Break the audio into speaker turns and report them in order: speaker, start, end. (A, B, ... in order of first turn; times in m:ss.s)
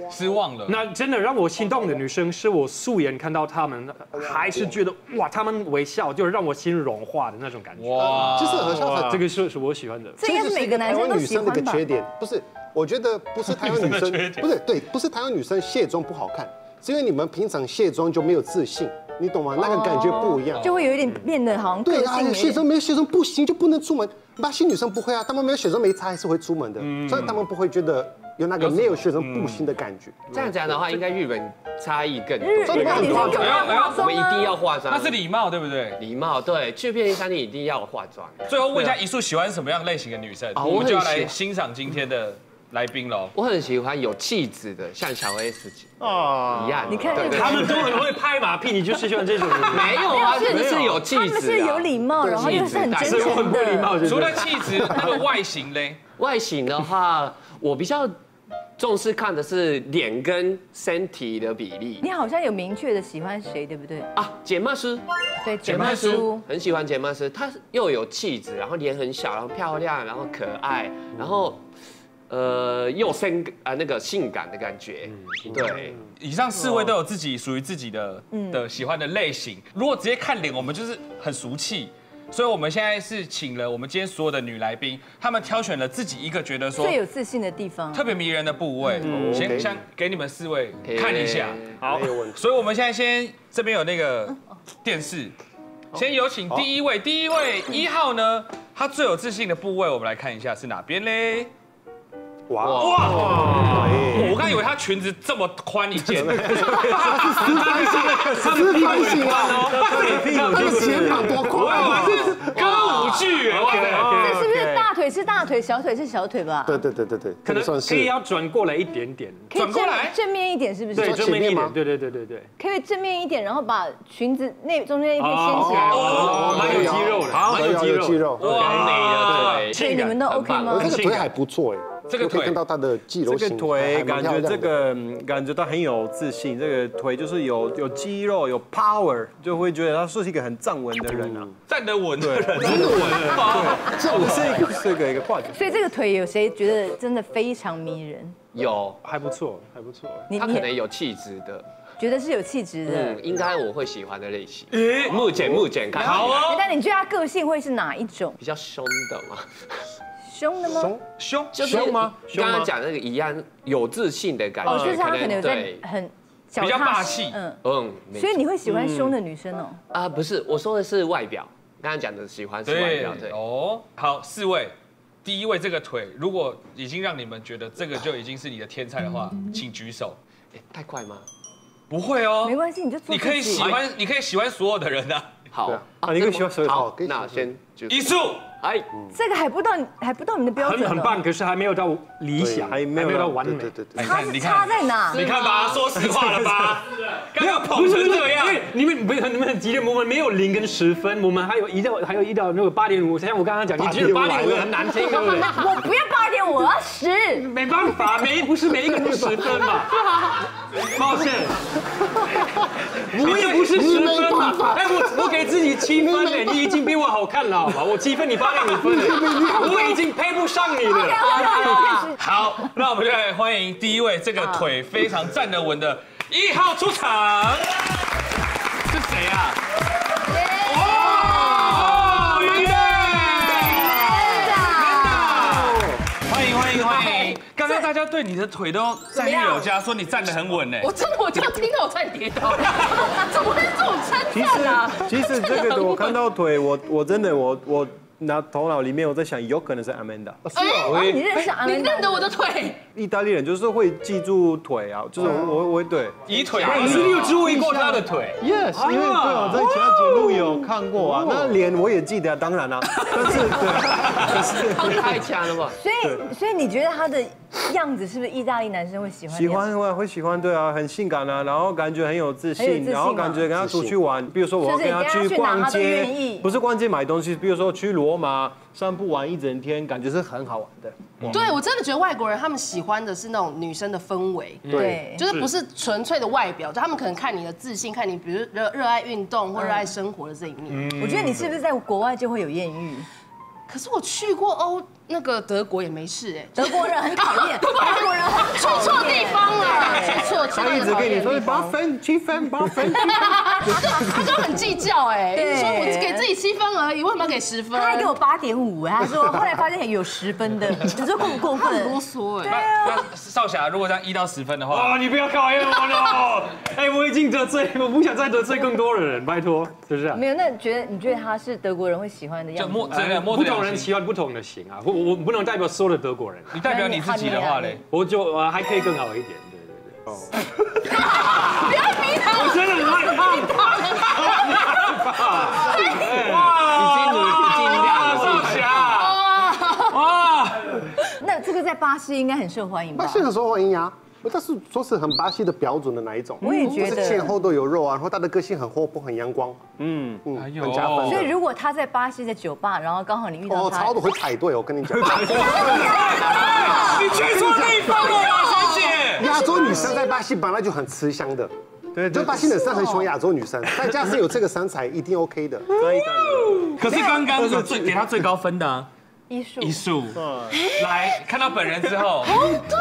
0:00.1-0:00.8 A
0:00.6-0:10.2 B
0:07.8-0:08.8 A
0:08.3-0:09.2 C
0:10.2-0:11.8 D
0:10.2-0:20.8 C
0:13.4-0:14.5 A
0:19.6-0:22.6 D
0:21.8-0:30.4 C
0:26.8-0:27.4 A
0:28.6-0:29.6 A
0:30.3-0:35.2 E
0:32.4-0:34.4 D
0:32.6-0:33.5 C
0:33.0-0:34.1 A
0:34.9-0:36.0 A
0:36.0-0:38.8 E
0:38.5-0:43.3 A
0:40.6-0:41.2 E
0:40.7-0:41.2 C
0:43.3-0:45.9 E
0:46.0-0:47.4 F
0:46.5-0:48.0 E
0:46.9-0:47.6 D
0:47.2-0:51.0 B
0:49.7-0:53.6 E
0:50.0-0:53.9 D
0:52.4-0:54.7 B
0:54.0-0:56.0 A
0:56.2-0:58.1 E
0:58.8-1:02.0 E
1:02.0-1:04.1 D
1:04.1-1:05.0 E
1:05.4-1:06.4 D
1:05.6-1:11.6 E
1:12.3-1:16.0 E
1:16.2-1:27.0 A
1:18.3-1:18.6 D
1:26.8-1:28.0 D
1:27.9-1:35.3 A
1:29.0-1:29.8 C
1:29.1-1:29.5 F
1:30.8-1:31.8 E
1:31.8-1:32.1 F
1:31.8-1:32.4 C
1:35.9-1:41.5 A
1:42.5-1:44.5 C
1:42.6-1:42.9 E
1:42.8-1:54.8 A
1:46.1-1:53.2 C
1:46.2-1:47.8 F
1:48.7-1:51.7 F
1:48.7-1:52.0 B
1:52.6-1:54.4 B
1:54.2-1:56.8 D
1:56.6-1:58.1 C
1:57.4-1:59.5 B
1:59.5-2:01.2 D
1:59.5-2:00.1 A
2:00.9-2:02.5 B
2:01.0-2:01.8 C
2:02.6-2:06.4 D
2:05.2-2:07.8 B
2:05.7-2:09.8 A
2:06.2-2:08.7 C
2:08.4-2:10.9 E
2:08.6-2:09.6 B
2:09.7-2:11.0 D
2:10.7-2:14.7 C
2:10.9-2:11.2 B
2:12.1-2:12.6 A
2:13.2-2:21.5 F
2:21.2-2:21.5 C
2:21.7-2:24.6 A
2:22.2-2:25.6 F
2:23.0-2:23.5 B
2:25.5-2:28.3 D
2:28.5-2:29.0 E
2:29.0-2:29.9 B
2:30.3-2:30.7 D
2:30.3-2:31.6 E
2:32.0-2:33.2 D
2:32.8-2:36.5 E
2:34.7-2:35.2 A
2:35.9-2:36.6 A
2:36.4-2:38.4 D
2:38.4-2:39.8 E
2:40.2-2:40.9 D
2:40.6-2:41.0 C
2:41.2-2:42.0 A
2:41.5-2:45.8 E
2:41.6-2:42.7 F
2:44.6-2:47.6 D
2:46.6-2:47.4 A
2:47.6-2:49.1 E
2:48.1-2:49.8 D
2:49.9-2:53.4 E
2:52.6-3:00.2 A
3:00.5-3:01.2 E
3:01.9-3:05.3 A
3:02.4-3:03.7 D
3:05.5-3:08.9 E
3:06.0-3:06.9 F
3:06.6-3:07.5 C
3:07.9-3:08.4 A
3:09.1-3:11.2 D
3:10.6-3:13.7 B
3:12.4-3:12.7 C
3:12.5-3:13.5 F
3:13.5-3:14.2 C
3:13.9-3:18.6 A
3:14.0-3:15.2 D
3:15.1-3:16.8 B
3:17.3-3:25.7 B
3:23.8-3:24.9 C
3:25.3-3:27.5 D
3:27.4-3:29.9 B
3:30.9-3:31.6 B
3:33.1-3:42.0 B
3:33.2-3:33.8 A
3:33.2-3:34.9 C
3:36.1-3:36.6 C
3:38.8-3:40.0 C
3:41.1-3:47.7 A
3:41.2-3:42.1 D
3:48.9-3:49.6 A
3:50.6-4:00.9 A
3:56.7-3:57.4 G
3:59.1-3:59.7 G
4:00.8-4:05.0 G
4:04.3-4:10.4 F
4:05.5-4:06.0 G
4:10.4-4:11.0 C
4:10.6-4:12.8 G
4:10.9-4:12.3 D
4:12.9-4:16.9 F
4:15.2-4:15.5 C
4:16.3-4:18.3 A
4:16.6-4:20.4 B
4:18.4-4:24.9 F
4:18.9-4:19.6 A
4:21.2-4:21.6 C
4:24.3-4:25.8 E
4:25.8-4:29.6 D
4:29.3-4:41.3 F
4:32.6-4:33.4 D
4:33.6-4:34.0 C
4:34.6-4:36.4 D
4:41.2-4:50.9 G
4:44.7-4:45.4 B
4:44.7-4:45.2 D
4:49.6-4:49.8 D
4:51.0-4:53.1 D
4:51.0-4:51.4 A
4:53.7-5:01.5 G
4:56.5-5:01.6 D
5:00.5-5:03.2 C
5:00.7-5:02.1 F
5:02.8-5:08.1 G
5:04.2-5:04.5 C
5:05.3-5:06.2 D
5:07.7-5:12.0 D
5:11.6-5:13.0 G
5:12.4-5:15.0 A
5:14.7-5:20.2 B
5:20.1-5:23.0 D
5:22.5-5:23.9 A
5:22.9-5:26.7 B
5:26.5-5:27.8 A
5:26.6-5:27.8 D
5:27.9-5:30.0 B
5:32.3-5:36.8 B
5:33.8-5:40.8 A
5:36.6-5:38.9 E
5:38.0-5:38.8 B
5:41.2-5:43.2 D
5:42.9-5:49.6 C
5:46.4-5:47.3 D
5:49.8-5:50.2 F
5:50.2-5:51.3 C
5:50.4-5:51.3 A
5:51.0-5:54.0 D
5:53.5-6:01.5 C
5:55.0-5:59.4 A
6:01.9-6:03.0 F
6:02.1-6:05.7 C
6:05.8-6:08.0 F
6:06.6-6:08.9 A
6:09.3-6:09.8 D
6:09.6-6:10.2 A
6:10.1-6:10.6 F
6:10.8-6:12.5 A